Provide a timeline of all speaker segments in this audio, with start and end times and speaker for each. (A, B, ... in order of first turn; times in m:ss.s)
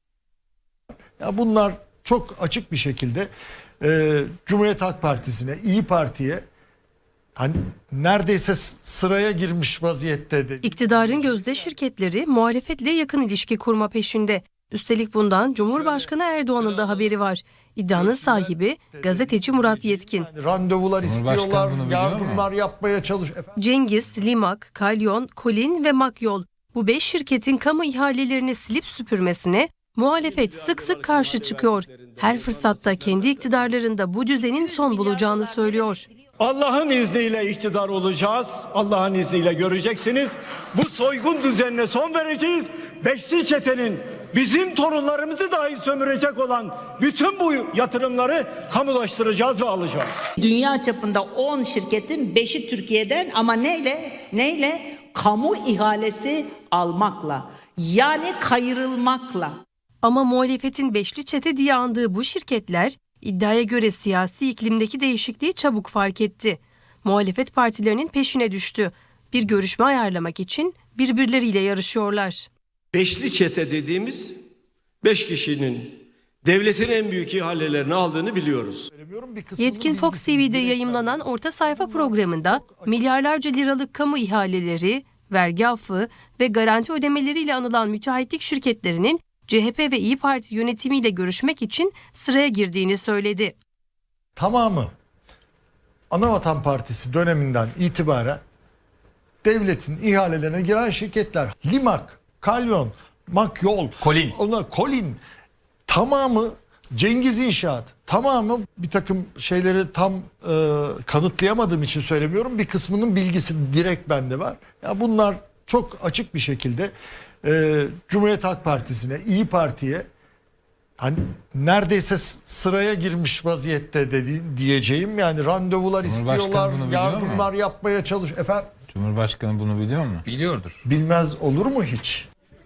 0:01.2-0:03.3 A
0:03.8-0:06.4 A
0:07.4-0:11.8 A
0:10.6-0:20.3 B
0:15.7-0:17.1 A
0:17.9-0:23.6 A
0:21.0-0:22.5 C
0:23.6-0:36.0 B
0:30.2-0:33.6 D
0:36.4-0:50.3 E
0:50.4-0:59.6 F
1:00.0-1:12.5 B
1:12.9-1:14.4 D
1:15.0-1:18.9 D
1:18.9-1:23.0 A
1:19.6-1:33.6 B
1:34.4-1:34.9 A
1:36.1-1:38.4 A
1:39.4-1:45.2 A
1:45.9-2:00.1 A
2:01.0-2:08.7 A
2:06.0-2:07.5 C
2:08.9-2:10.8 C
2:10.8-2:12.2 A